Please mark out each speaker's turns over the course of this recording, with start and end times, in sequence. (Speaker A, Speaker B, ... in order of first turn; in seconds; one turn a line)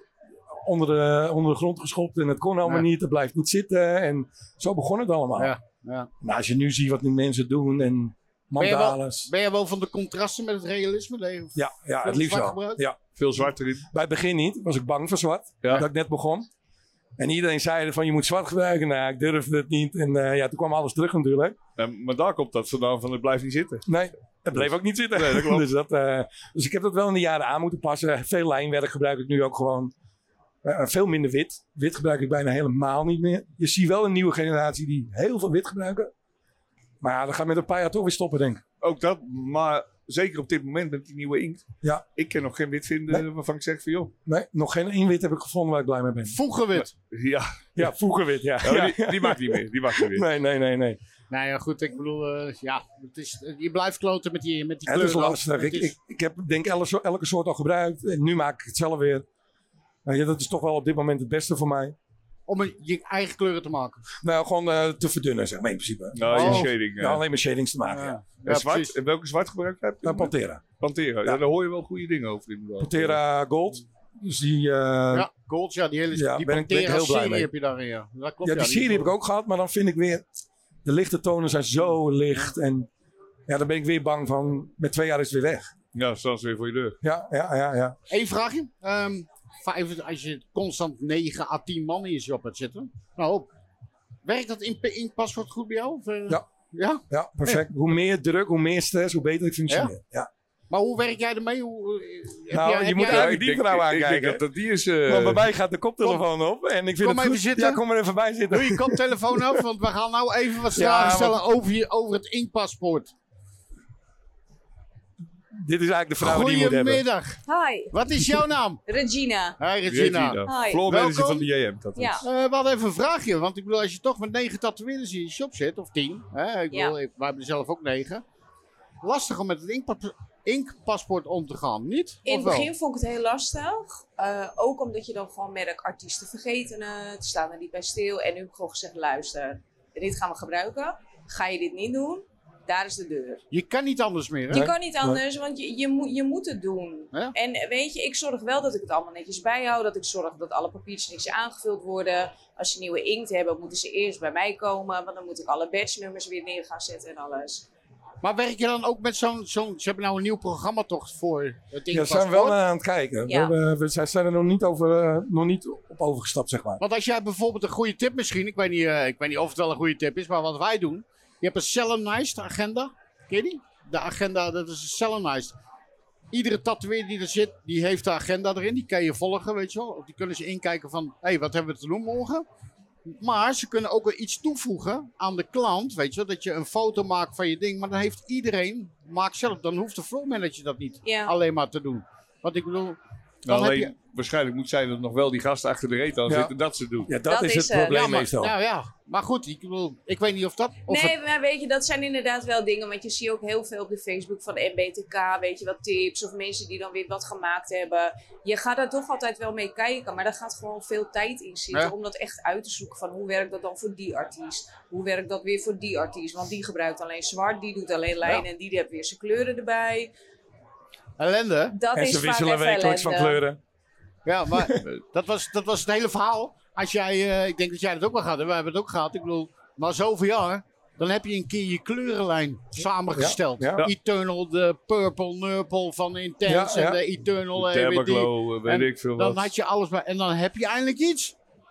Speaker A: 0.5-5.5
Speaker B: 5.4-6.1
Speaker A: 6.2-9.3
Speaker B: 8.6-12.8
Speaker A: 11.5-13.0
Speaker C: 13.2-13.8
Speaker A: 13.9-16.5
Speaker A: 17.2-21.6
Speaker C: 21.8-23.8
Speaker A: 23.9-29.9
Speaker C: 25.1-25.6
Speaker A: 30.6-36.1
Speaker A: 37.0-38.6
Speaker C: 38.8-41.6
Speaker C: 42.1-44.1
Speaker A: 44.2-46.4
Speaker B: 46.3-46.9
Speaker C: 47.1-47.9
Speaker A: 47.8-51.0
Speaker C: 48.6-50.2
Speaker B: 51.3-55.9
Speaker A: 54.9-59.2
Speaker A: 60.0-61.9
Speaker B: 62.5-64.0
Speaker A: 64.2-68.2
Speaker C: 66.1-67.2
Speaker B: 66.3-66.7
Speaker B: 67.9-68.9
Speaker C: 68.4-73.2
Speaker A: 70.0-70.6
Speaker A: 72.8-75.3
Speaker B: 75.1-79.1
Speaker A: 76.1-77.5
Speaker A: 78.4-80.3
Speaker A: 80.8-82.9
Speaker A: 83.5-85.7
Speaker C: 85.9-87.0
Speaker A: 87.0-88.0
Speaker B: 88.1-93.5
Speaker B: 94.2-97.6
Speaker A: 97.1-100.3
Speaker B: 100.7-103.3
Speaker A: 102.5-104.4
Speaker C: 103.0-105.5
Speaker A: 105.0-109.6
Speaker B: 107.0-107.8
Speaker B: 108.5-113.1
Speaker A: 110.7-111.4
Speaker A: 115.5-117.0
Speaker B: 116.2-117.4
Speaker D: 117.5-118.0
Speaker B: 117.9-118.8
Speaker D: 118.9-119.6
Speaker B: 119.6-121.5
Speaker C: 119.8-122.2
Speaker D: 120.5-120.8
Speaker D: 122.0-122.2
Speaker B: 122.2-128.2
Speaker B: 129.0-132.7
Speaker D: 132.2-143.4
Speaker B: 143.5-144.7
Speaker D: 144.5-157.7
Speaker A: 144.5-145.2
Speaker B: 158.2-162.6
Speaker A: 161.9-166.8
Speaker D: 163.3-163.5
Speaker B: 166.8-175.6
Speaker B: 176.3-182.4
Speaker B: 183.0-193.9
Speaker D: 191.0-191.3
Speaker C: 193.4-197.1
Speaker A: 196.3-196.5
Speaker A: 197.1-198.5
Speaker D: 197.2-198.2
Speaker B: 197.9-201.2
Speaker D: 200.9-220.1
Speaker B: 221.2-221.8
Speaker D: 221.7-223.4
Speaker A: 221.9-223.6
Speaker B: 224.2-241.3
Speaker A: 233.1-233.8
Speaker A: 236.4-237.0
Speaker C: 237.6-239.5